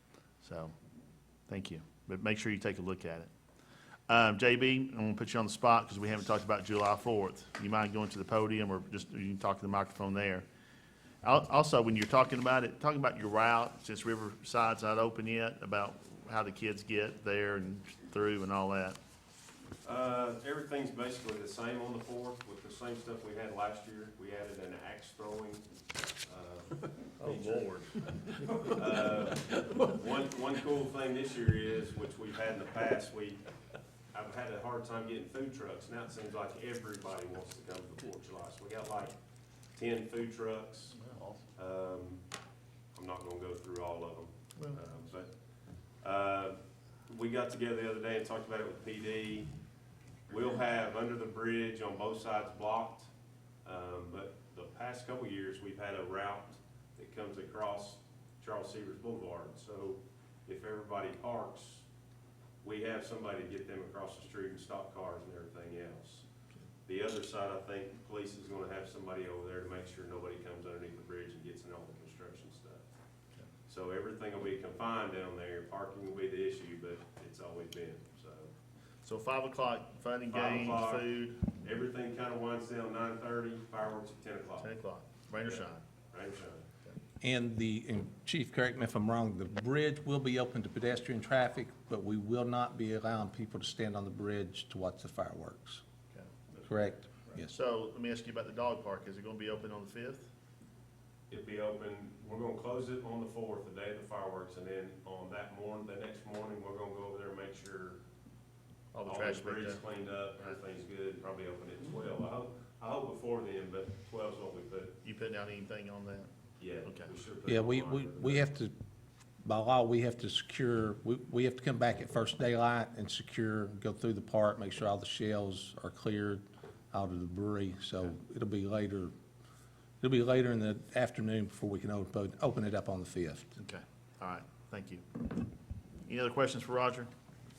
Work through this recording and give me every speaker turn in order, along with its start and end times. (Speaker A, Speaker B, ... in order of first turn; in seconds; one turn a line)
Speaker A: 0.4-0.7
Speaker A: 1.5-3.3
Speaker A: 4.1-10.5
Speaker A: 11.2-19.0
Speaker B: 19.8-25.6
Speaker B: 26.2-27.7
Speaker A: 27.2-28.0
Speaker B: 28.7-33.4
Speaker B: 34.1-39.2
Speaker B: 39.8-41.0
Speaker A: 40.9-41.4
Speaker B: 41.6-42.2
Speaker B: 42.9-45.3
Speaker B: 46.0-49.5
Speaker B: 50.3-53.1
Speaker B: 53.6-61.9
Speaker B: 62.6-66.2
Speaker B: 66.8-72.8
Speaker B: 73.7-78.5
Speaker A: 79.0-81.6
Speaker B: 80.3-81.1
Speaker B: 81.6-84.7
Speaker A: 84.6-85.8
Speaker B: 85.4-86.6
Speaker C: 87.2-95.8
Speaker C: 96.6-97.5
Speaker A: 97.5-100.3
Speaker B: 101.3-108.0
Speaker A: 108.9-109.8
Speaker B: 109.1-114.9
Speaker A: 115.0-116.3
Speaker B: 116.6-118.5
Speaker A: 116.8-117.1
Speaker C: 117.5-118.7
Speaker C: 119.4-129.1
Speaker C: 130.0-133.6
Speaker A: 133.6-135.2
Speaker A: 136.1-137.1